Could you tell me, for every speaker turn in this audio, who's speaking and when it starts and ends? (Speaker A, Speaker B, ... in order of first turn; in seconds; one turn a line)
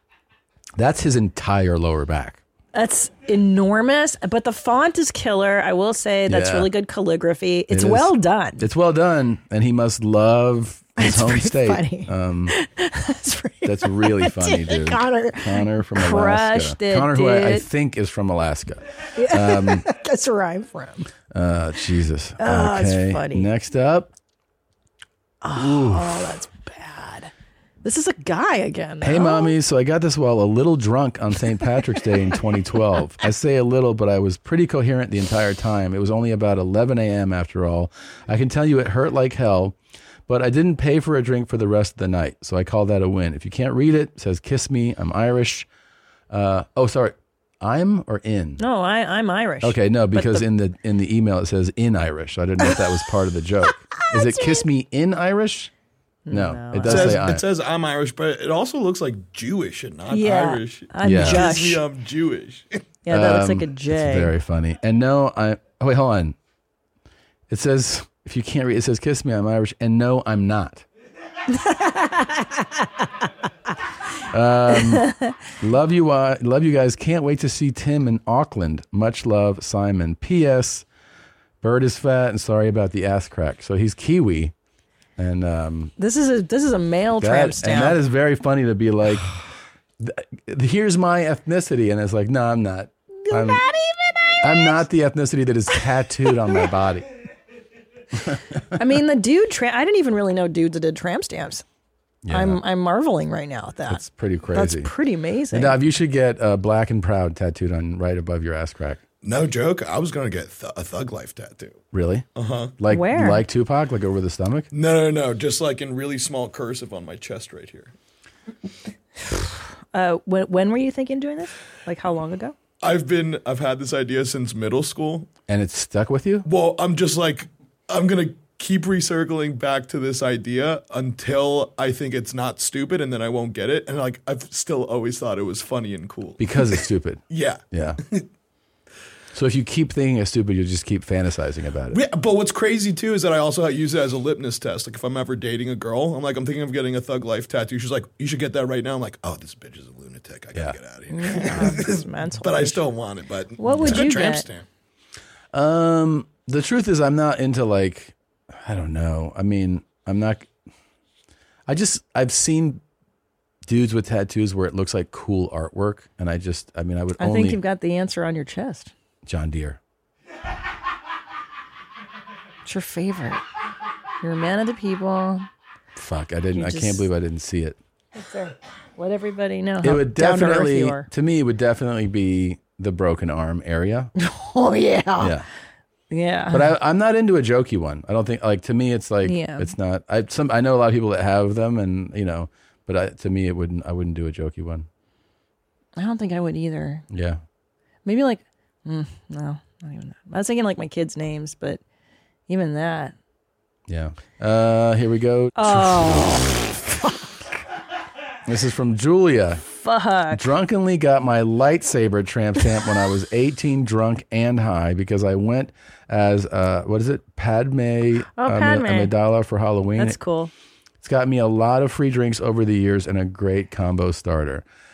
Speaker A: 0.8-2.4
Speaker B: 2.7-8.6
Speaker A: 6.3-6.7
Speaker A: 7.7-12.5
Speaker B: 11.0-17.7
Speaker A: 13.7-19.9
Speaker B: 19.2-21.1
Speaker A: 21.3-24.1
Speaker B: 22.4-23.5
Speaker B: 25.4-27.3
Speaker A: 25.6-26.4
Speaker B: 27.8-29.6
Speaker A: 29.0-39.8
Speaker A: 40.3-45.7
Speaker A: 46.3-48.6
Speaker B: 48.6-50.5
Speaker A: 49.6-55.7
Speaker B: 54.1-54.6
Speaker B: 56.3-57.2
Speaker A: 56.3-57.4
Speaker C: 56.8-62.8
Speaker B: 60.1-61.8
Speaker A: 61.0-61.4
Speaker B: 63.1-64.3
Speaker A: 63.1-66.4
Speaker A: 67.5-70.8
Speaker B: 71.5-72.7
Speaker A: 74.3-80.8
Speaker B: 74.7-75.3
Speaker A: 81.6-84.5
Speaker A: 85.2-85.9
Speaker B: 86.0-88.0
Speaker A: 87.2-89.3
Speaker A: 90.0-93.6
Speaker B: 93.2-94.8
Speaker A: 94.4-97.1
Speaker B: 96.3-96.6
Speaker B: 98.8-101.6
Speaker A: 102.2-102.6
Speaker B: 102.3-105.8
Speaker A: 103.9-104.9
Speaker A: 105.5-109.0
Speaker C: 109.2-111.8
Speaker A: 111.9-112.3
Speaker C: 112.3-112.7
Speaker A: 112.8-114.7
Speaker B: 112.9-113.4
Speaker C: 114.7-117.9
Speaker B: 119.3-122.5
Speaker C: 122.8-125.3
Speaker A: 125.5-126.5
Speaker C: 126.5-138.3
Speaker A: 136.4-138.0
Speaker A: 139.3-142.0
Speaker C: 141.9-154.7
Speaker B: 151.1-152.8
Speaker B: 153.6-154.5
Speaker A: 153.7-154.0
Speaker A: 155.5-160.5
Speaker A: 161.7-162.8
Speaker A: 163.7-167.6
Speaker B: 167.2-168.9
Speaker A: 169.3-169.8
Speaker B: 172.7-173.4
Speaker B: 174.2-175.5
Speaker A: 176.0-177.8
Speaker B: 176.6-177.1
Speaker B: 178.2-181.1
Speaker A: 179.8-184.1
Speaker B: 184.2-185.3
Speaker A: 185.2-185.5
Speaker B: 186.1-186.8
Speaker A: 186.5-194.9
Speaker B: 189.2-189.7
Speaker B: 196.0-197.1
Speaker A: 197.1-197.4
Speaker B: 198.1-201.8
Speaker B: 202.5-203.1
Speaker A: 203.9-206.4
Speaker B: 205.6-207.3
Speaker A: 208.4-209.6
Speaker B: 209.7-210.4
Speaker A: 210.3-220.2
Speaker B: 218.3-219.1
Speaker B: 220.0-220.5
Speaker A: 221.0-224.6